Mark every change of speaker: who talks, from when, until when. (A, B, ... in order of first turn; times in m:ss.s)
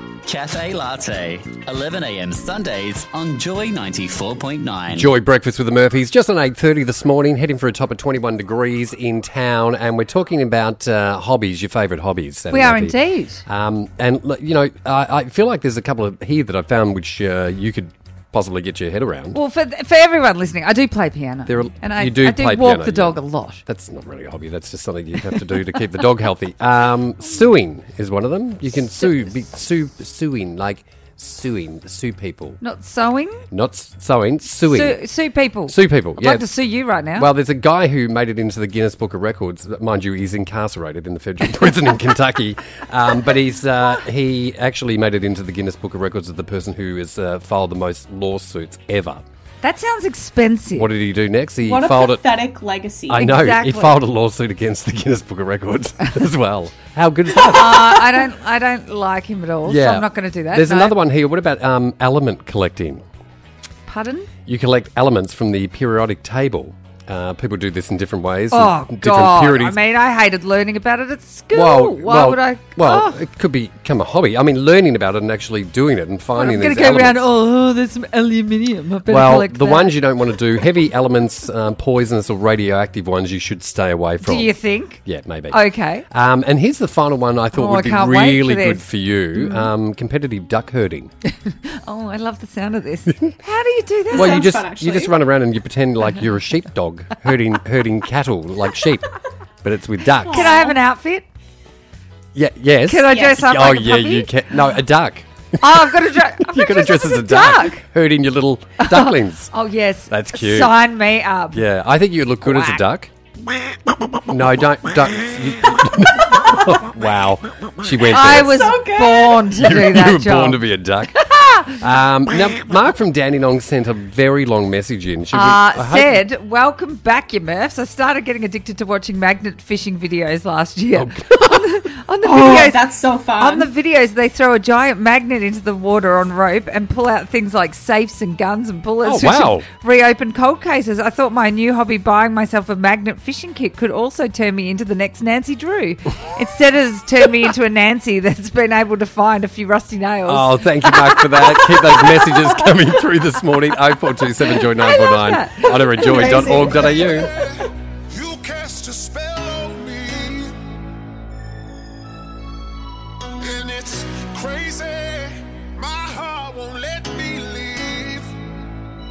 0:00.2-0:05.1 A
0:04.9-0:19.4 B
0:12.5-0:13.4 C
0:19.3-0:23.6 C
0:21.5-0:32.6 B
0:32.6-0:33.4 C
0:33.5-0:35.0 B
0:34.7-0:37.3 C
0:35.7-0:36.5 B
0:37.2-0:49.2 B
0:49.6-0:50.9 C
0:50.8-0:52.4 B
0:51.6-0:53.3 D
0:53.1-0:58.2 B
0:53.1-0:54.0 C
0:57.4-1:01.0 C
0:59.6-1:03.0 B
1:03.9-1:04.3 C
1:04.5-1:09.8 B
1:08.5-1:13.2 C
1:11.5-1:17.3 B
1:16.4-1:20.0 C
1:19.1-1:31.1 B
1:24.2-1:25.0 C
1:25.5-1:26.1 C
1:27.5-1:29.7 C
1:31.5-1:34.6 C
1:33.1-1:33.4 B
1:34.1-1:35.2 D
1:34.1-1:39.1 B
1:39.6-1:40.6 B
1:40.3-1:41.2 C
1:40.3-1:40.8 D
1:42.3-1:49.5 B
1:42.9-1:44.3 C
1:45.6-1:47.8 C
1:48.8-1:51.6 C
1:50.1-1:50.8 B
1:51.5-1:53.1 B
1:52.4-1:52.8 C
1:54.1-1:58.8 B
1:56.4-1:56.6 D
1:58.1-2:00.6 C
1:58.2-1:59.6 D
1:59.5-2:06.2 B
2:01.2-2:01.8 C
2:05.3-2:32.4 C
2:10.9-2:11.8 B
2:12.2-2:13.7 D
2:19.0-2:19.7 B
2:30.3-2:37.3 B
2:34.5-2:37.2 C
2:37.1-2:40.5 E
2:43.4-2:48.3 E